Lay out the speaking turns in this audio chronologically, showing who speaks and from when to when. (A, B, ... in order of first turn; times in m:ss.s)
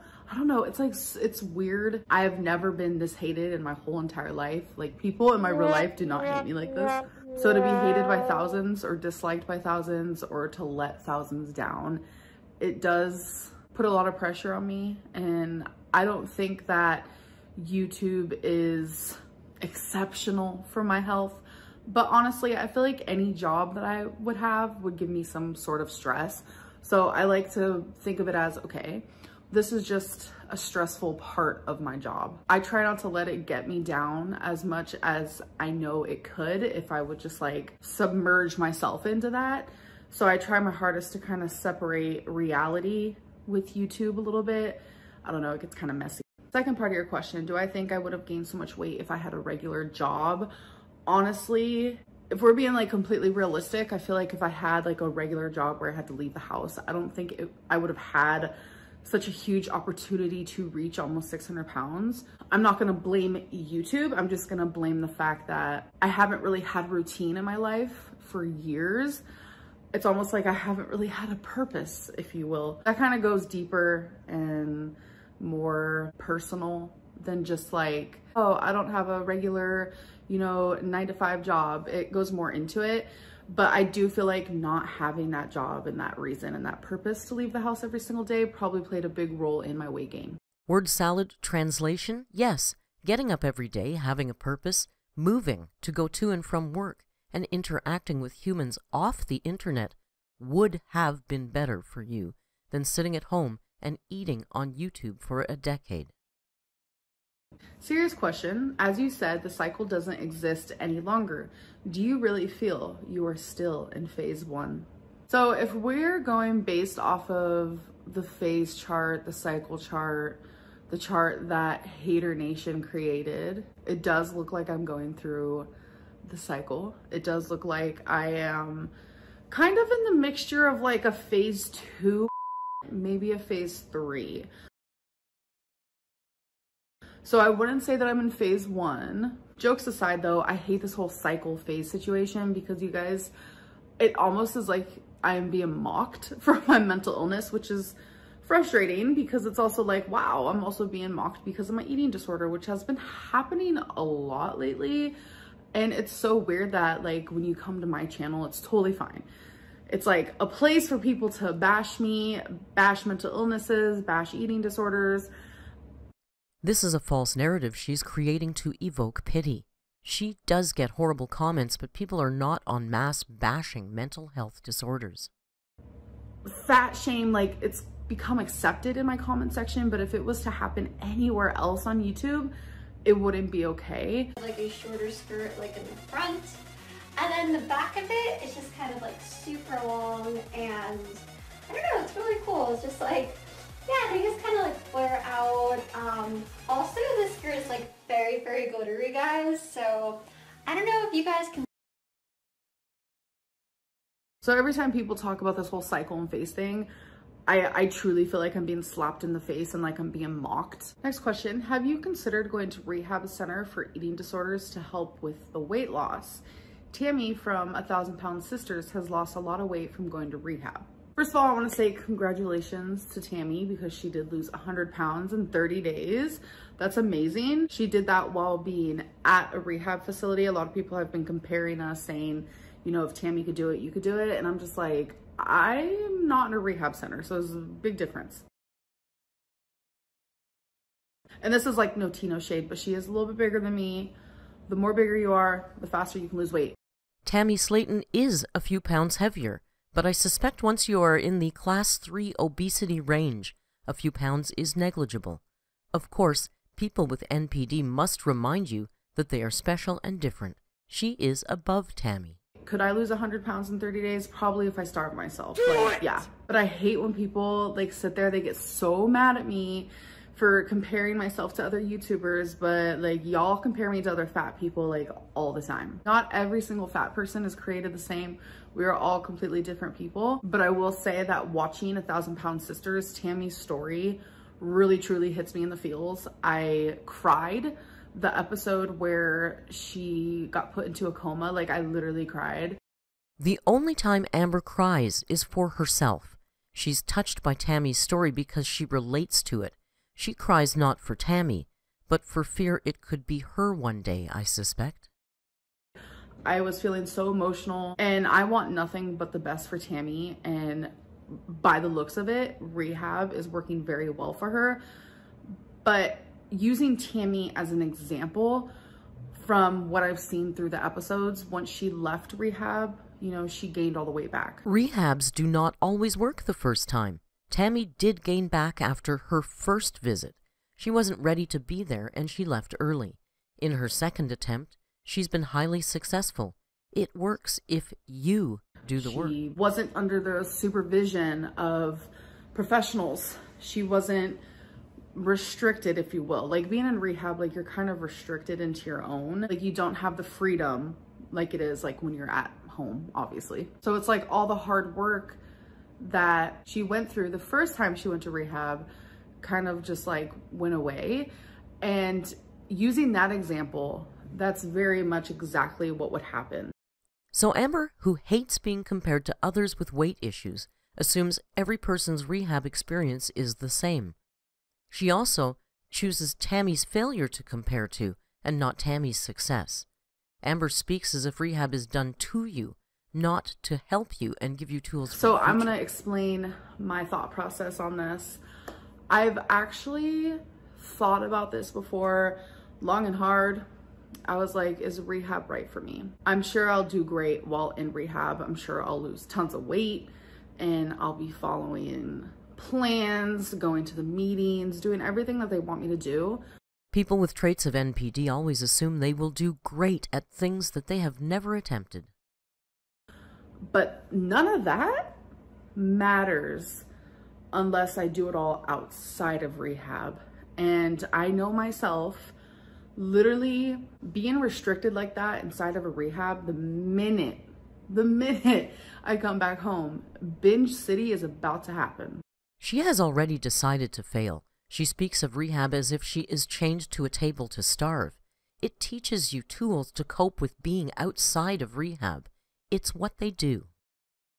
0:00.3-0:12.0 A
0:12.6-0:50.5 A
0:51.1-1:09.2 A
1:09.9-1:30.4 A
1:30.6-1:46.1 B
1:47.8-2:05.7 A
2:06.2-2:08.9 A
2:09.5-2:12.3 A
2:12.8-2:14.5 A
2:17.2-2:23.3 A
2:24.0-2:35.2 A
2:35.7-2:39.2 A
2:39.9-2:45.3 A
2:46.6-2:55.3 B
2:56.4-3:02.5 A
3:03.0-3:04.3 A
3:04.4-3:06.6 C
3:07.2-3:21.6 C
3:24.4-3:26.9 A
3:27.5-3:58.4 A
4:01.4-4:04.1 A
4:04.7-4:06.8 A
4:07.2-4:15.4 B
4:15.9-4:22.4 B
4:22.6-4:52.8 A
4:53.4-5:05.1 B
5:06.4-5:14.8 A
5:15.8-5:18.7 A
5:19.3-5:24.6 A
5:24.6-5:39.3 B
5:39.0-5:44.4 A
5:45.1-5:55.4 A
5:56.0-5:58.9 A
5:59.4-6:06.7 A
6:07.3-6:14.1 B
6:14.9-6:19.8 B
6:20.4-6:25.7 B
6:25.1-6:28.4 A
6:29.1-6:33.6 A
6:34.3-6:46.4 A
6:46.9-6:52.1 B
6:53.7-6:55.2 A
6:55.7-6:56.9 A
6:57.5-7:02.3 A
7:03.0-7:12.2 A
7:12.6-7:23.7 B